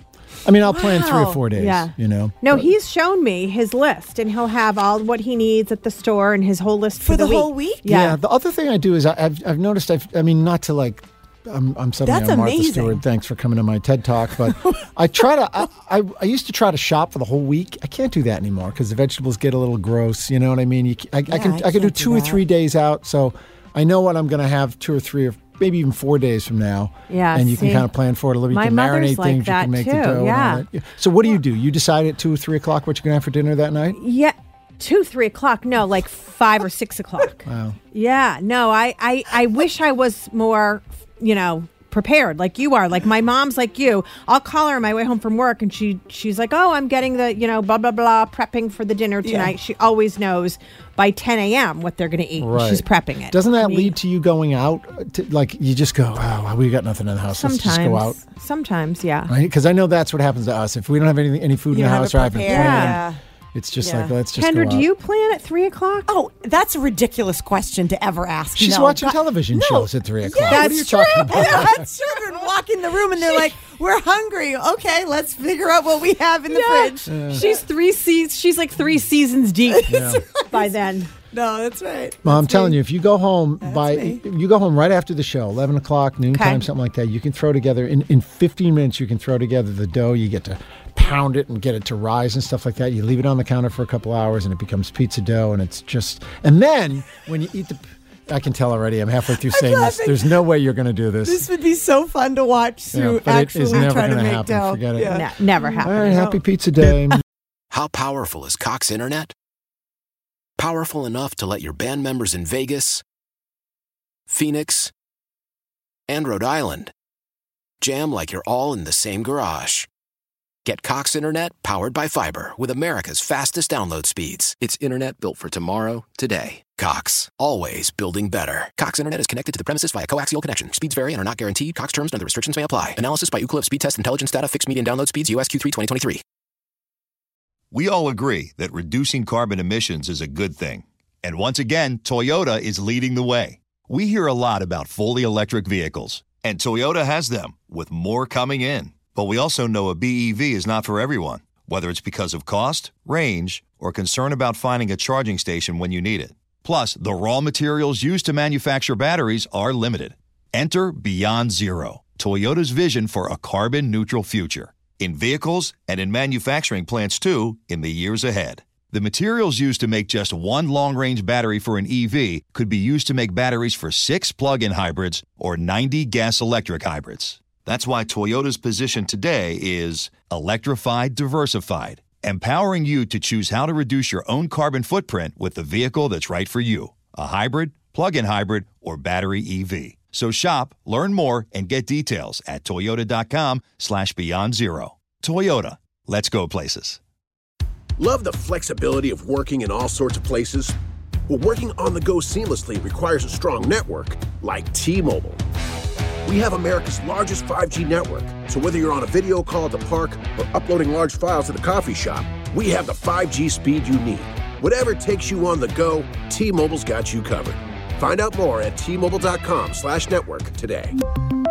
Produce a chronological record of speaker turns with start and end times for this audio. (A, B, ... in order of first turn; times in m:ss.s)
0:00.4-0:02.7 A
0:00.6-0:01.5 B
0:01.6-0:08.2 C
0:07.0-0:07.8 B
0:07.9-0:34.0 A
0:12.0-0:13.0 B
0:21.3-0:22.4 B
0:27.1-0:27.9 C
0:28.5-0:30.6 C
0:33.9-0:53.9 C
0:37.5-0:37.8 A
0:49.2-0:49.5 B
0:52.4-0:58.2 A
0:57.3-0:59.3 C
0:59.3-1:04.9 A
1:01.7-1:03.2 B
1:02.6-1:03.0 C
1:03.8-1:04.2 B
1:04.4-1:06.1 C
1:06.1-1:09.3 B
1:08.6-1:11.8 A
1:09.6-1:09.9 C
1:10.2-1:17.1 B
1:10.5-1:11.5 C
1:16.5-1:21.1 C
1:17.1-1:17.4 A
1:19.7-1:22.8 B
1:19.9-1:20.2 A
1:22.2-1:41.5 A
1:23.6-1:24.2 B
1:26.3-1:26.6 C
1:39.4-1:40.3 B
1:41.2-1:46.9 B
1:42.9-1:45.3 A
1:45.1-1:46.1 C
1:45.8-1:47.2 A
1:47.7-1:49.3 D
1:50.6-1:53.0 D
1:54.3-1:54.9 D
1:56.1-1:56.9 D
1:57.8-1:59.9 D
2:00.6-2:16.2 D
2:17.7-3:17.0 E
3:18.0-3:20.8 F
3:21.3-3:25.4 F
3:26.3-3:41.0 F